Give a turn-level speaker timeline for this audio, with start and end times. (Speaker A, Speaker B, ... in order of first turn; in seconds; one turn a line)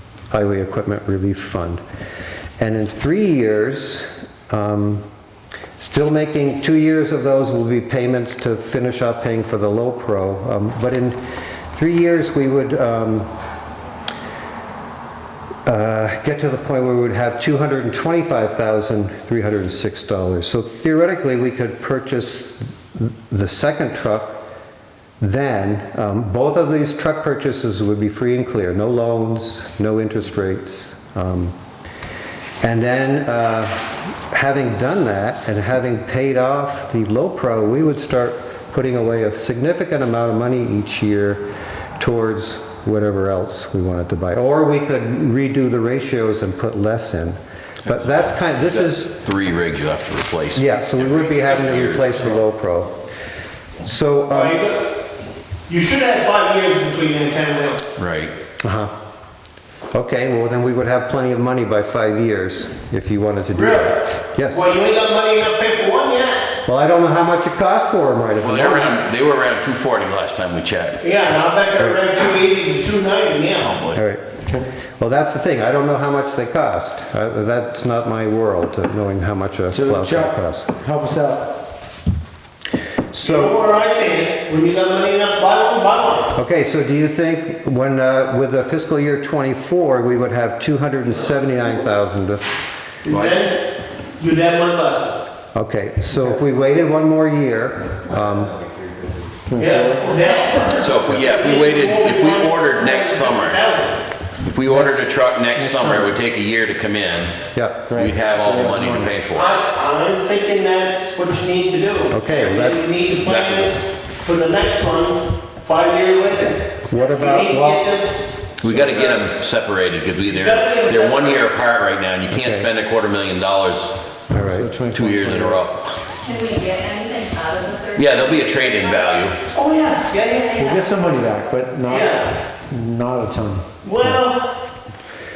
Speaker A: 0.3-1.8
Speaker A: 2.6-5.0
Speaker A: 5.8-11.2
Speaker A: 11.7-13.3
Speaker A: 15.7-24.4
Speaker A: 25.2-31.5
Speaker A: 32.6-41.4
Speaker A: 42.0-49.1
Speaker B: 47.9-52.4
Speaker A: 50.5-52.9
Speaker A: 53.8-54.6
Speaker C: 54.3-54.9
Speaker C: 55.7-57.8
Speaker B: 58.0-58.3
Speaker A: 58.6-58.9
Speaker A: 59.9-64.7
Speaker C: 63.5-66.5
Speaker A: 66.7-69.0
Speaker B: 68.4-71.0
Speaker C: 71.0-73.8
Speaker B: 73.6-74.0
Speaker A: 73.9-74.2
Speaker A: 75.0-80.7
Speaker D: 79.7-81.6
Speaker A: 83.1-83.5
Speaker C: 83.2-86.3
Speaker A: 86.3-92.4
Speaker C: 93.0-95.2
Speaker B: 93.1-93.3
Speaker A: 95.5-98.6
Speaker D: 99.5-100.2
Speaker C: 99.6-104.0
Speaker B: 100.8-103.6
Speaker B: 104.4-107.3
Speaker D: 104.7-106.1
Speaker A: 107.5-107.8
Speaker D: 107.9-109.2
Speaker B: 107.9-109.5
Speaker C: 109.3-118.2
Speaker A: 112.1-112.9
Speaker B: 113.2-113.9
Speaker A: 116.9-117.9
Speaker B: 118.6-123.9
Speaker C: 118.7-119.1
Speaker C: 120.3-121.5
Speaker A: 122.3-122.7
Speaker A: 124.3-124.7
Speaker D: 124.3-125.6
Speaker B: 124.9-126.0
Speaker E: 126.1-129.2
Speaker B: 128.0-129.4
Speaker C: 129.5-130.8
Speaker D: 130.5-133.7
Speaker C: 131.9-132.3
Speaker C: 133.8-134.4